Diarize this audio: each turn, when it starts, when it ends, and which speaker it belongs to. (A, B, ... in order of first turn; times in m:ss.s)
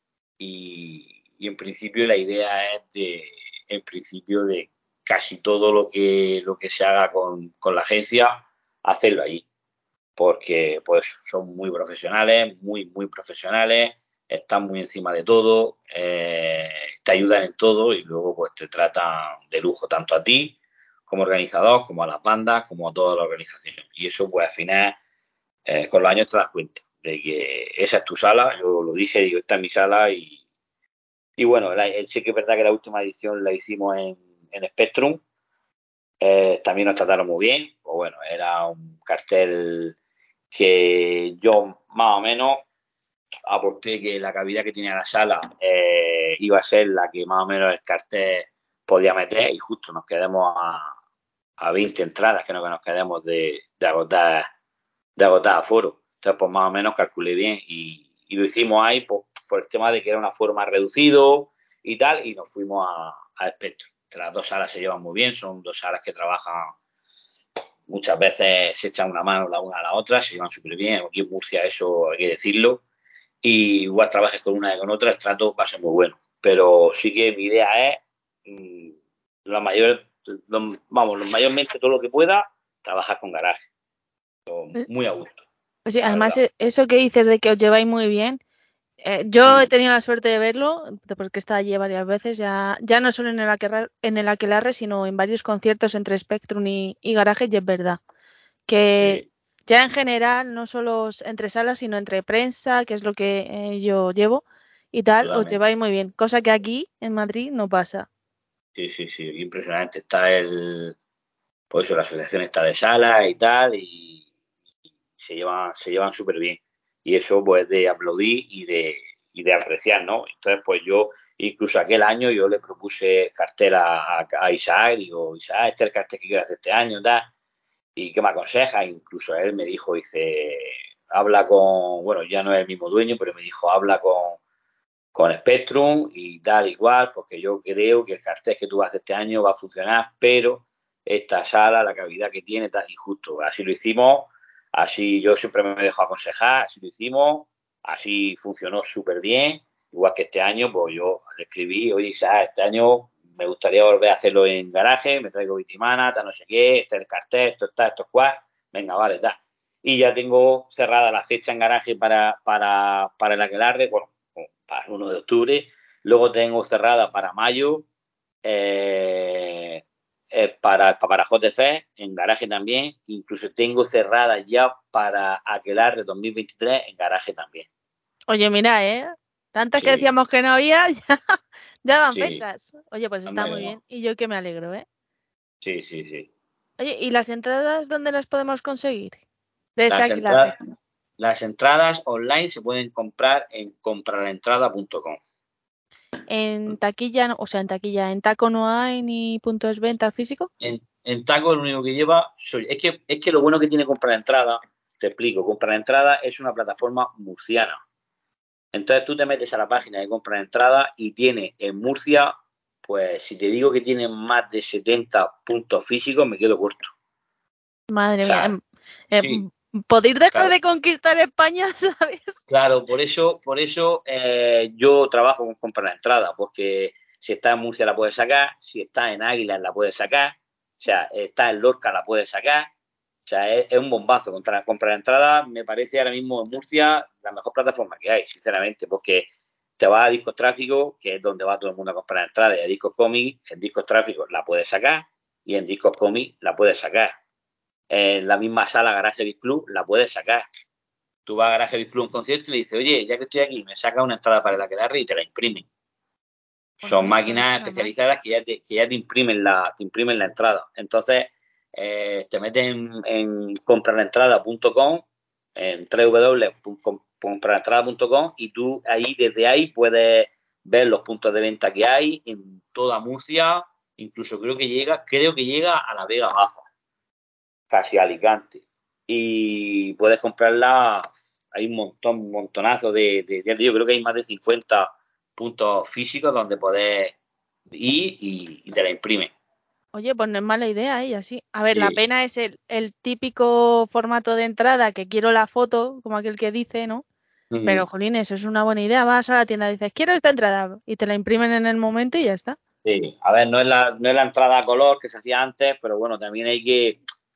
0:00.4-0:09.4 A
0:10.2-0:25.0 A
0:25.6-0:30.4 A
0:31.4-0:35.2 A
0:36.2-0:40.0 A
0:40.5-0:42.6 A
0:43.5-0:50.9 A
0:51.6-0:54.5 A
0:55.2-1:06.7 A
1:07.9-1:12.8 A
1:13.4-1:23.7 A
1:24.5-1:25.4 A
1:25.8-1:28.4 B
1:26.0-1:26.4 A
1:29.0-1:38.0 B
1:29.4-1:29.7 A
1:38.7-1:48.1 B
1:39.0-1:39.3 A
1:45.2-1:45.6 A
1:48.8-1:51.0 A
1:51.7-1:54.2 A
1:55.2-2:07.3 A
2:08.0-2:14.4 A
2:15.1-2:47.8 A
2:48.4-2:57.7 A
2:58.3-3:04.8 B
2:59.8-3:00.1 A
3:02.1-3:02.4 A
3:03.3-3:03.8 A
3:05.6-3:06.3 A
3:06.8-3:09.2 B
3:09.8-3:10.5 B
3:09.9-3:10.6 A
3:11.2-3:15.2 A
3:16.3-3:20.5 B
3:20.6-3:27.8 A
3:28.7-3:36.9 A
3:37.9-3:38.6 B
3:38.2-3:38.5 A
3:39.1-3:42.4 B
3:39.2-3:39.4 A
3:42.5-3:52.7 A
3:53.2-4:07.2 A
4:07.9-4:10.4 A
4:11.2-4:15.7 A
4:16.8-4:25.0 A
4:16.8-4:17.9 B
4:25.6-4:36.7 A
4:37.7-4:47.2 A
4:47.7-4:49.3 A
4:49.9-4:57.0 B
4:51.7-4:52.0 A
4:57.5-4:57.8 A
4:57.6-5:02.6 B
5:02.8-5:07.0 A